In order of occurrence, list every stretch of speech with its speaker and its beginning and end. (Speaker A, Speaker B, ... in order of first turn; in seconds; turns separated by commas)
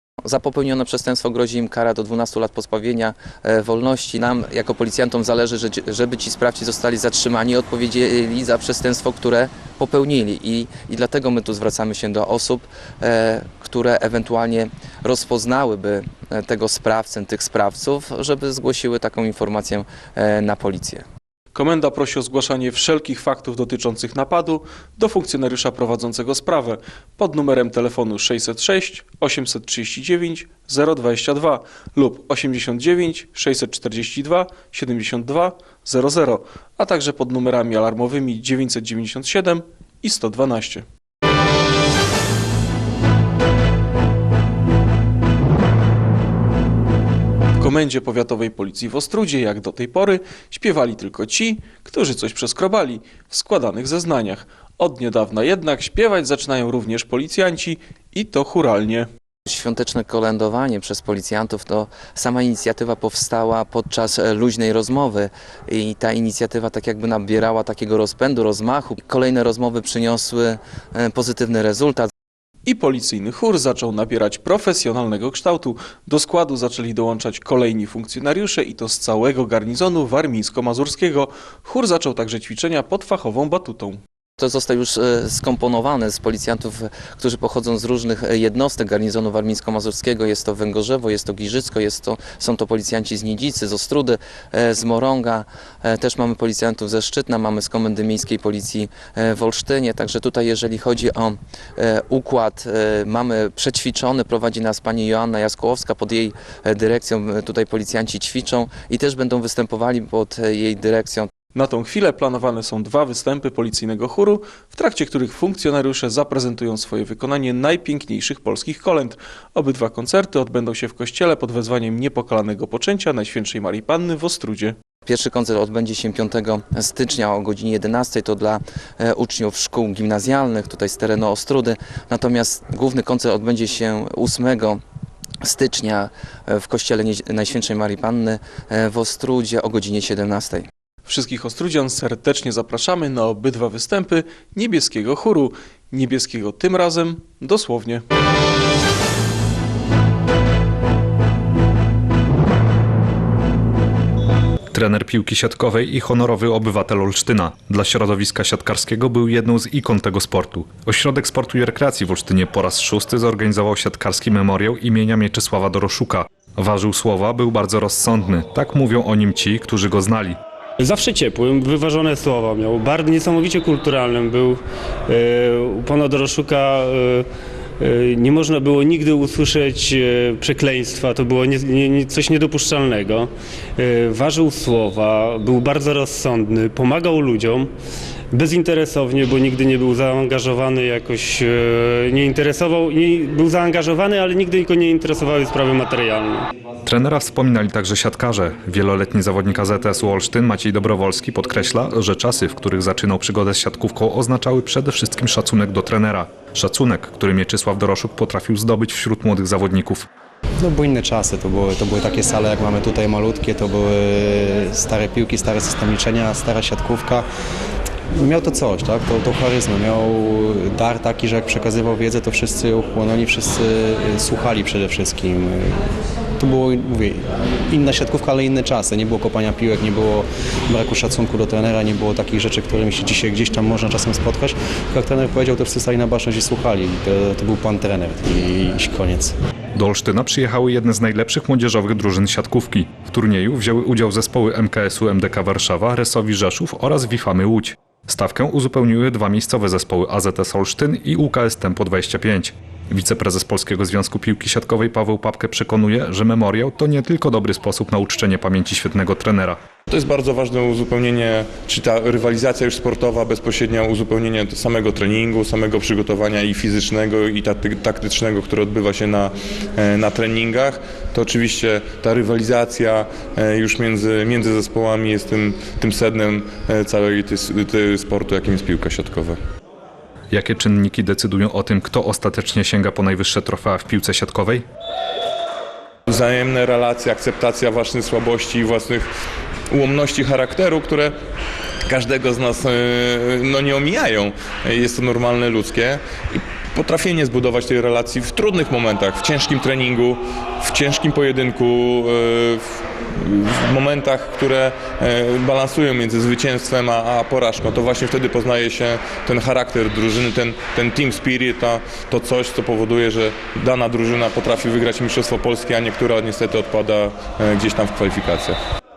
Speaker A: 0.2-21.1, Speaker B: 21.5-40.8, Speaker B: 47.6-59.1, Speaker A: 59.5-72.1, Speaker B: 72.7-84.0, Speaker A: 84.4-111.3, Speaker B: 111.5-124.8, Speaker A: 125.0-134.8, Speaker A: 135.4-140.7, Speaker B: 141.1-148.0, Speaker C: 154.7-170.4, Speaker D: 170.8-177.3, Speaker D: 177.8-187.7, Speaker D: 188.3-196.5, Speaker C: 196.8-210.1, Speaker E: 210.6-217.2, Speaker E: 218.2-225.8, Speaker E: 226.4-239.3, Speaker C: 239.7-259.6, Speaker F: 259.9-279.4, Speaker C: 280.3-284.6, Speaker F: 286.1-289.0, Speaker F: 289.7-291.1, Speaker F: 291.9-296.0, Speaker F: 296.7-302.4, Speaker F: 303.7-318.5